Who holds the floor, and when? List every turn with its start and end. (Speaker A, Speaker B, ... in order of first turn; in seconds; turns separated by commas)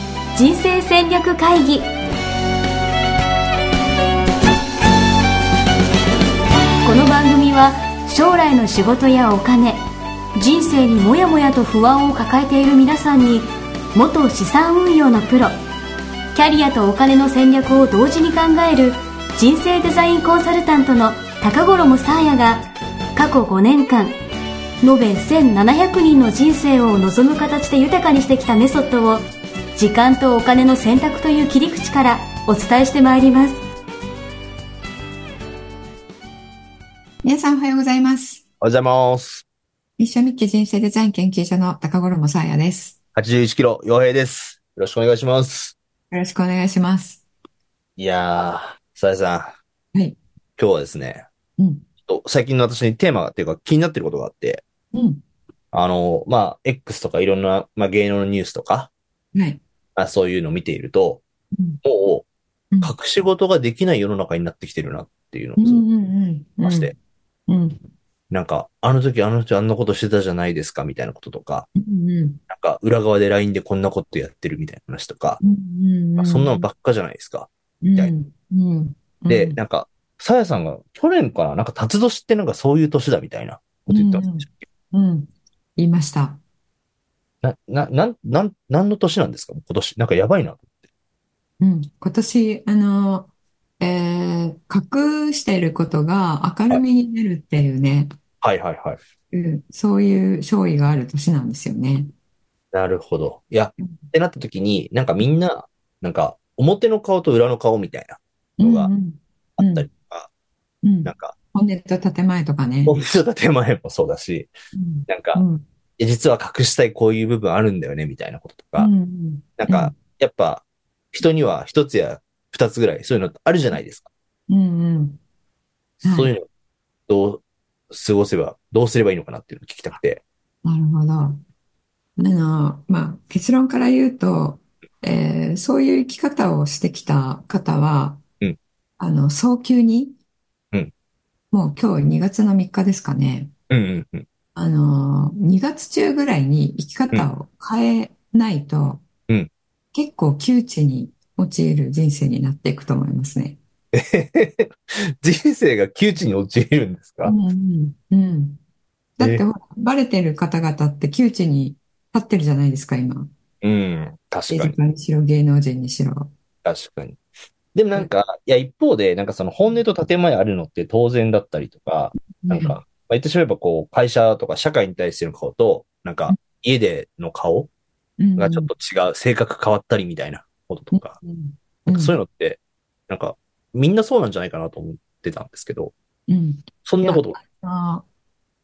Speaker A: 0.3-1.9, Speaker A: 6.8-9.8, Speaker A: 10.4-15.6, Speaker A: 16.3-22.6, Speaker A: 23.2-24.2, Speaker A: 24.8-29.2, Speaker A: 29.8-33.6, Speaker B: 37.2-38.4, Speaker C: 38.6-39.5, Speaker B: 40.0-43.0, Speaker C: 43.2-45.7, Speaker B: 46.1-47.2, Speaker C: 48.0-49.6, Speaker C: 50.6-51.3, Speaker B: 51.6-51.9, Speaker C: 52.0-54.6, Speaker B: 54.9-55.2, Speaker C: 55.7-58.9, Speaker B: 59.4-59.6, Speaker C: 60.0-61.2, Speaker B: 61.5-61.8, Speaker C: 61.8-62.3, Speaker C: 62.8-65.9, Speaker B: 65.6-66.9, Speaker C: 66.6-66.9, Speaker B: 67.5-67.8, Speaker C: 68.3-71.7, Speaker B: 71.8-72.4, Speaker C: 72.5-75.4, Speaker B: 75.4-76.7, Speaker C: 76.2-78.1, Speaker B: 77.8-79.6, Speaker C: 79.3-84.6, Speaker B: 83.9-86.4, Speaker C: 87.4-90.7, Speaker B: 91.6-98.1, Speaker C: 98.4-99.0, Speaker B: 99.3-102.1, Speaker C: 102.7-108.9, Speaker B: 108.6-109.9, Speaker C: 109.6-110.3, Speaker B: 110.8-113.0, Speaker C: 111.0-111.3, Speaker C: 112.8-114.5, Speaker B: 114.7-115.7, Speaker C: 115.1-115.4, Speaker C: 116.0-118.9, Speaker B: 118.8-120.0, Speaker C: 119.6-124.1, Speaker B: 124.5-125.2, Speaker B: 126.0-126.3, Speaker C: 126.0-126.5, Speaker C: 127.1-130.2, Speaker B: 130.7-131.4, Speaker B: 132.2-138.2, Speaker B: 139.0-140.2, Speaker B: 141.5-143.5, Speaker C: 143.7-144.2, Speaker B: 144.6-149.0, Speaker B: 149.9-153.6, Speaker C: 153.9-157.3, Speaker B: 157.2-158.6, Speaker B: 159.2-163.3, Speaker C: 163.6-164.8, Speaker B: 164.5-166.3, Speaker C: 166.7-167.2, Speaker C: 167.7-177.7, Speaker B: 172.4-172.8, Speaker B: 178.2-178.7, Speaker C: 178.4-181.2, Speaker B: 180.9-182.2, Speaker C: 181.9-185.9, Speaker B: 186.3-188.1, Speaker C: 186.8-187.4